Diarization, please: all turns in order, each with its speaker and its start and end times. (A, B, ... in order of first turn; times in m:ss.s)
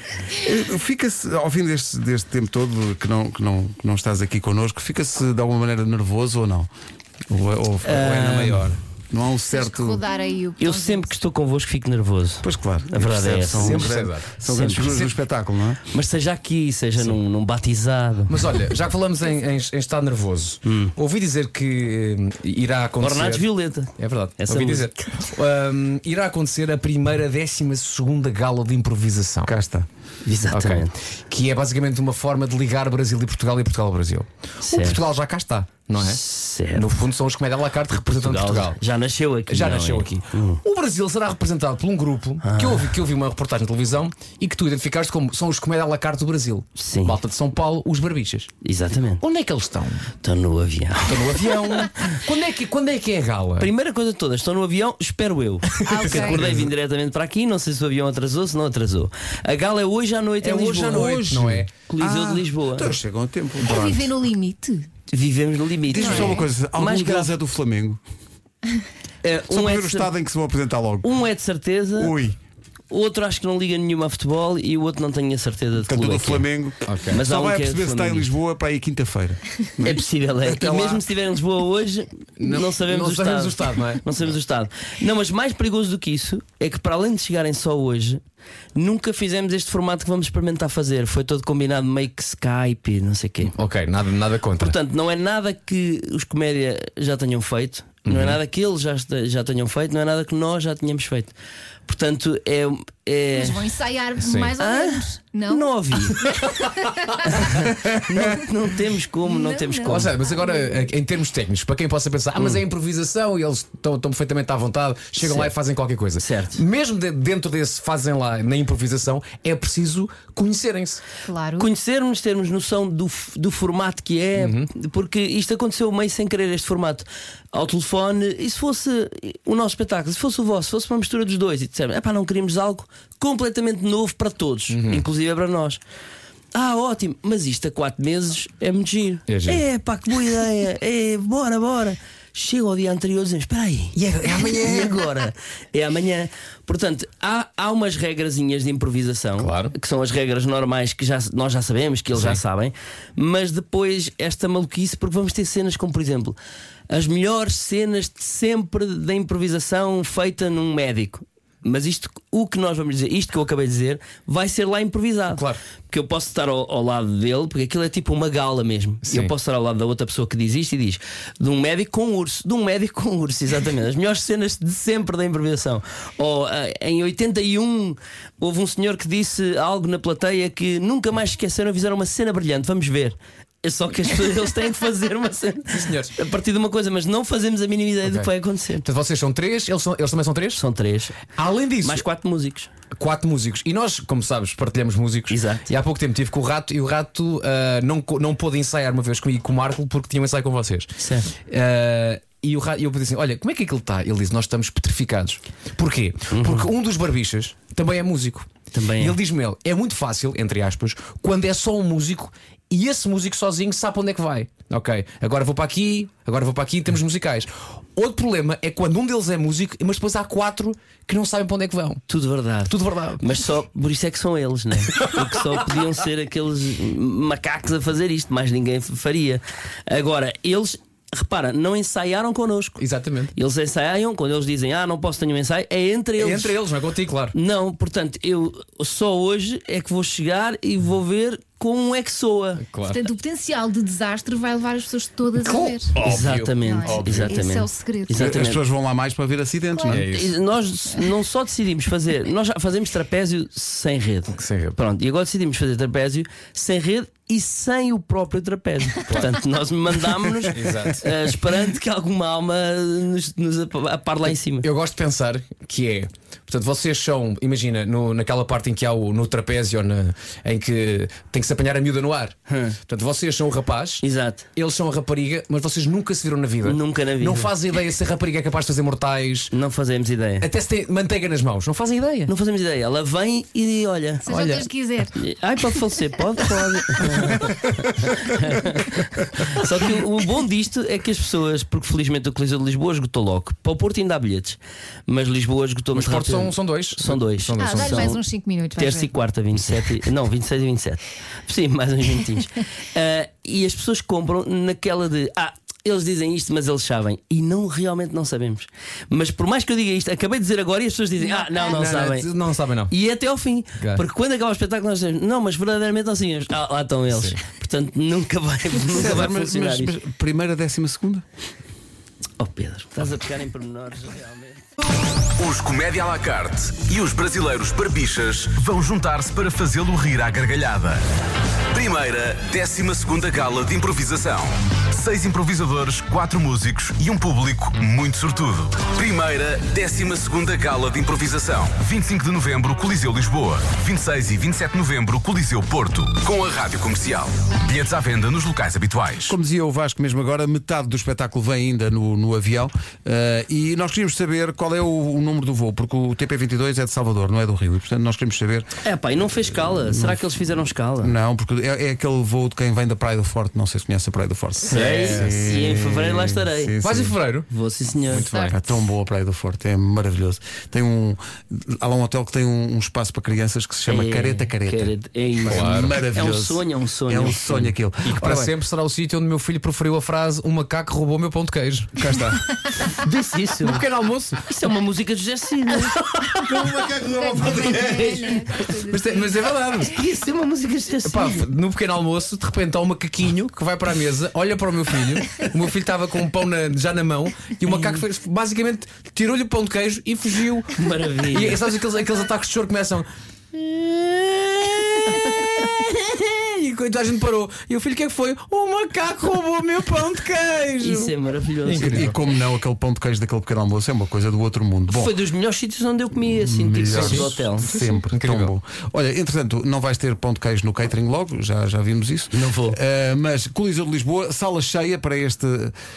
0:00.3-0:06.7 A
0:07.3-0:10.0 A
0:07.8-0:08.7 B
0:09.5-0:11.2 C
0:10.6-0:14.9 B
0:12.4-0:15.8 A
0:13.5-0:15.1 D
0:15.9-0:18.5 B
0:18.3-0:23.4 D
0:20.6-0:20.9 B
0:23.0-0:25.2 B
0:24.0-0:29.5 D
0:29.4-0:29.9 A
0:30.2-0:30.9 B
0:30.5-0:36.2 D
0:34.6-0:35.0 B
0:36.0-0:36.9 B
0:36.7-0:38.8 D
0:37.9-0:40.6 B
0:39.5-0:48.5 D
0:42.4-0:42.9 B
0:46.8-0:47.2 B
0:48.6-0:49.2 B
0:49.2-0:50.1 D
0:50.2-0:52.0 B
0:51.0-0:53.7 D
0:53.6-1:01.3 B
0:55.7-0:56.7 D
0:55.8-0:56.5 C
1:00.4-1:01.7 D
1:00.9-1:04.1 A
1:01.9-1:02.9 B
1:03.6-1:04.9 C
1:05.1-1:07.3 B
1:05.9-1:08.0 A
1:06.0-1:06.5 C
1:09.2-1:10.1 B
1:09.5-1:11.1 A
1:11.0-1:12.2 B
1:12.0-1:12.4 A
1:12.9-1:16.5 B
1:15.8-1:21.0 A
1:16.8-1:17.2 D
1:17.1-1:18.3 B
1:19.8-1:28.2 B
1:22.4-1:24.0 D
1:28.8-1:33.5 B
1:33.5-1:34.7 D
1:34.6-1:41.3 B
1:38.1-1:38.4 D
1:41.8-1:43.7 B
1:43.3-1:47.3 C
1:44.2-1:44.5 D
1:44.6-1:46.4 B
1:46.2-1:46.5 D
1:47.2-1:50.1 B
1:47.7-1:48.0 D
1:49.2-1:50.6 C
1:49.9-2:01.0 D
1:55.2-1:55.5 B
1:56.2-1:56.6 B
2:01.2-2:01.7 C
2:01.6-2:15.8 B
2:04.4-2:04.7 D
2:14.7-2:15.0 D
2:16.5-2:36.4 B
2:19.3-2:19.6 D
2:23.9-2:25.0 D
2:29.4-2:29.7 D
2:36.9-3:08.8 B
2:45.3-2:45.6 D
2:49.0-2:49.3 D
3:05.7-3:06.1 D
3:08.8-3:10.6 D
3:10.5-3:11.2 B
3:11.2-3:12.0 D
3:11.8-3:12.7 B
3:12.9-3:42.0 D
3:15.3-3:15.7 B
3:21.0-3:21.3 B
3:26.3-3:26.7 B
3:28.7-3:29.2 B
3:42.1-3:52.8 B
3:42.7-3:43.3 D
3:45.0-3:45.4 D
3:52.8-3:53.3 D
3:53.3-3:56.6 B
3:56.2-3:57.3 D
3:57.3-4:02.6 B
4:02.6-4:03.0 D
4:02.9-4:06.0 C
4:05.4-4:07.4 D
4:06.0-4:08.6 B
4:06.6-4:08.3 C
4:08.2-4:10.1 A
4:09.7-4:10.0 C
4:09.9-4:10.3 D
4:10.1-4:24.7 B
4:14.3-4:14.8 D
4:20.5-4:21.1 D
4:24.6-4:34.0 D
4:32.5-4:32.8 B
4:34.0-4:34.4 B
4:34.5-4:39.5 D
4:36.6-4:37.5 B
4:39.5-4:40.5 B
4:40.4-4:42.3 D
4:42.3-4:44.3 B
4:44.2-4:45.2 C
4:44.3-4:44.6 D
4:45.1-4:58.2 B
4:47.2-4:47.6 D
4:55.9-4:58.2 D
4:57.6-4:59.1 C
4:58.8-5:12.3 B
5:11.5-5:12.9 D
5:12.9-5:19.9 B
5:17.1-5:17.4 D
5:18.8-5:21.2 A
5:22.4-5:24.6 B
5:25.3-5:31.0 E
5:31.7-5:49.3 E
5:49.3-5:58.7 A
5:58.8-6:01.1 B
5:59.7-6:00.2 A
6:01.0-6:07.2 A
6:04.6-6:06.8 B
6:04.7-6:05.5 D
6:06.8-6:07.5 D
6:07.5-6:08.3 B
6:08.0-6:08.6 D
6:08.2-6:08.5 C
6:08.4-6:14.9 A
6:13.9-6:17.7 B
6:15.4-6:18.5 A
6:15.5-6:15.9 D
6:18.0-6:22.4 D
6:22.0-6:22.4 A
6:22.9-6:23.8 B
6:23.6-6:24.4 D
6:24.4-6:26.9 B
6:25.9-6:27.0 D
6:26.5-6:29.6 C
6:27.4-6:28.4 B
6:27.6-6:28.0 D
6:28.7-6:30.0 D
6:29.8-6:31.5 B
6:31.0-6:40.7 D
6:37.7-6:38.0 B
6:40.8-6:41.6 B
6:41.3-6:52.1 D
6:50.8-6:52.1 B
6:51.7-6:55.2 A
6:54.9-6:57.7 B
6:56.3-7:05.7 A
6:56.9-6:58.5 D
7:02.3-7:02.8 B